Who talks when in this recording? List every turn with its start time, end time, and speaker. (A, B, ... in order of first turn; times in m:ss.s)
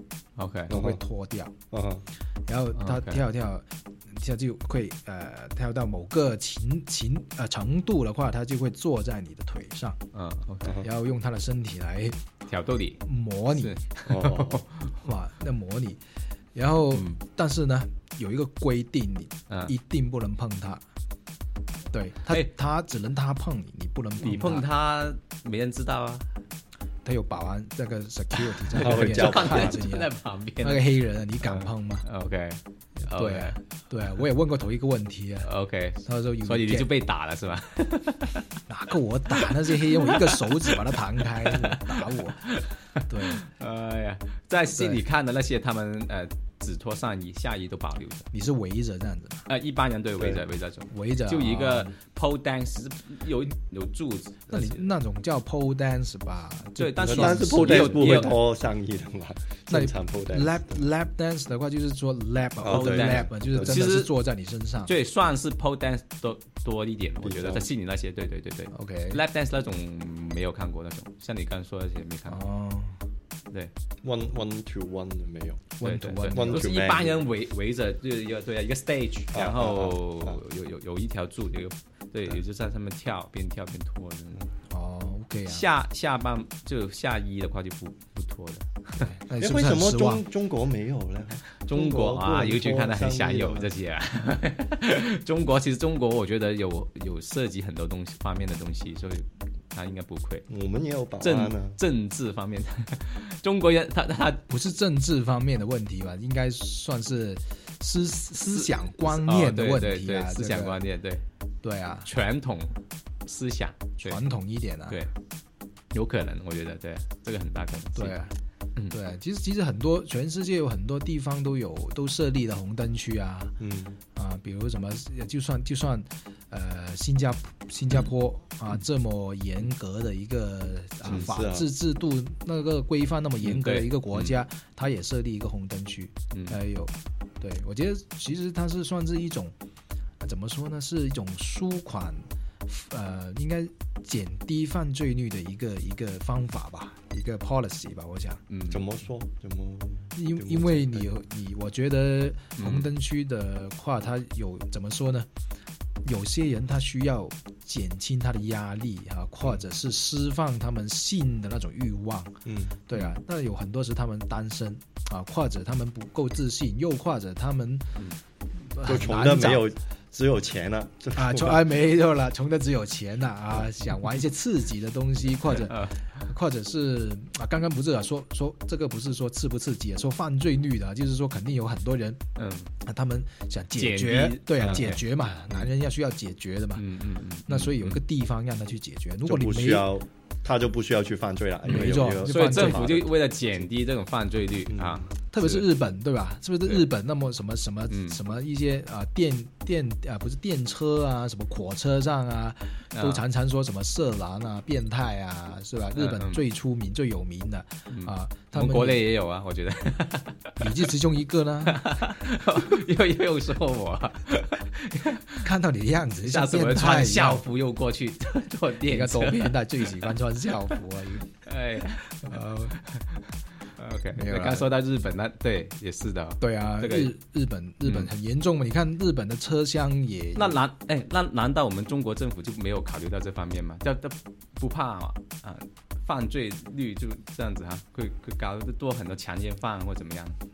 0:00.4-0:00.7 A
0:00.7-0:01.5 B
0:00.7-0:01.0 C
0:01.7-0:02.0 C
0:02.5-0:10.0 B
0:02.7-0:03.2 A
0:10.1-0:10.8 A
0:10.8-0:12.2 B
0:12.5-0:13.0 A
0:13.0-0:13.9 B
0:13.5-0:15.0 A
0:14.1-0:14.6 C
0:15.0-0:16.0 B
0:16.5-0:20.8 B
0:16.9-0:17.2 A
0:21.9-0:24.7 B
0:24.2-0:26.2 A
0:27.0-0:32.0 B
0:28.3-0:30.9 A
0:28.8-0:29.8 C
0:31.4-0:33.6 A
0:33.1-0:35.5 B
0:35.4-0:38.4 A
0:36.0-0:36.9 B
0:38.7-0:43.4 B
0:39.4-0:40.7 A
0:41.4-0:48.3 A
0:44.7-0:45.0 B
0:48.3-0:49.5 B
0:49.5-0:54.8 A
0:50.9-0:51.9 B
0:54.5-0:58.4 B
0:56.8-0:58.3 A
0:57.0-1:00.8 C
0:59.7-1:04.9 B
1:02.6-1:03.8 C
1:02.7-1:04.1 A
1:04.9-1:12.4 A
1:07.2-1:07.7 C
1:08.7-1:09.2 B
1:12.3-1:13.0 B
1:14.0-1:15.7 C
1:15.8-1:16.7 B
1:15.8-1:24.4 A
1:16.3-1:17.3 C
1:19.3-1:20.4 C
1:24.7-1:25.7 B
1:25.4-1:29.1 A
1:29.0-1:30.2 B
1:29.4-1:33.7 C
1:31.6-1:40.4 A
1:40.5-1:41.8 C
1:41.2-1:44.4 A
1:44.5-1:50.8 B
1:48.5-1:51.2 A
1:51.6-1:52.1 B
1:52.0-1:54.2 A
1:54.0-1:55.0 B
1:55.9-1:58.2 A
1:58.0-1:58.3 B
1:58.9-2:03.5 B
2:03.6-2:04.0 C
2:04.1-2:19.5 B
2:11.0-2:11.7 C
2:13.4-2:14.4 A
2:16.3-2:16.6 A
2:20.2-2:28.4 B
2:28.5-2:28.8 A
2:28.7-2:31.1 C
2:30.2-2:35.3 B
2:32.6-2:32.9 A
2:36.0-2:47.9 B
2:42.4-2:42.9 C
2:48.7-2:49.7 B
2:48.8-2:51.6 C
2:51.2-3:02.2 B
2:55.5-2:56.1 A
3:02.4-3:02.7 A
3:02.8-3:06.8 B
3:03.8-3:05.0 A
3:06.8-3:08.0 A
3:07.5-3:09.9 B
3:09.2-3:13.7 C
3:11.6-3:15.7 A
3:11.7-3:13.0 B
3:14.7-3:15.1 C
3:15.3-3:29.0 B
3:17.9-3:18.2 A
3:22.9-3:23.2 A
3:26.0-3:26.4 A
3:27.9-3:30.6 A
3:30.6-3:32.1 B
3:31.7-3:35.5 A
3:35.4-3:37.4 B
3:36.2-3:40.1 A
3:38.8-3:41.3 B
3:41.4-3:42.3 A
3:42.2-3:42.8 B
3:43.7-3:47.1 A
3:44.1-3:44.7 B
3:46.4-3:50.6 B
3:47.8-3:48.1 A
3:50.3-4:00.4 A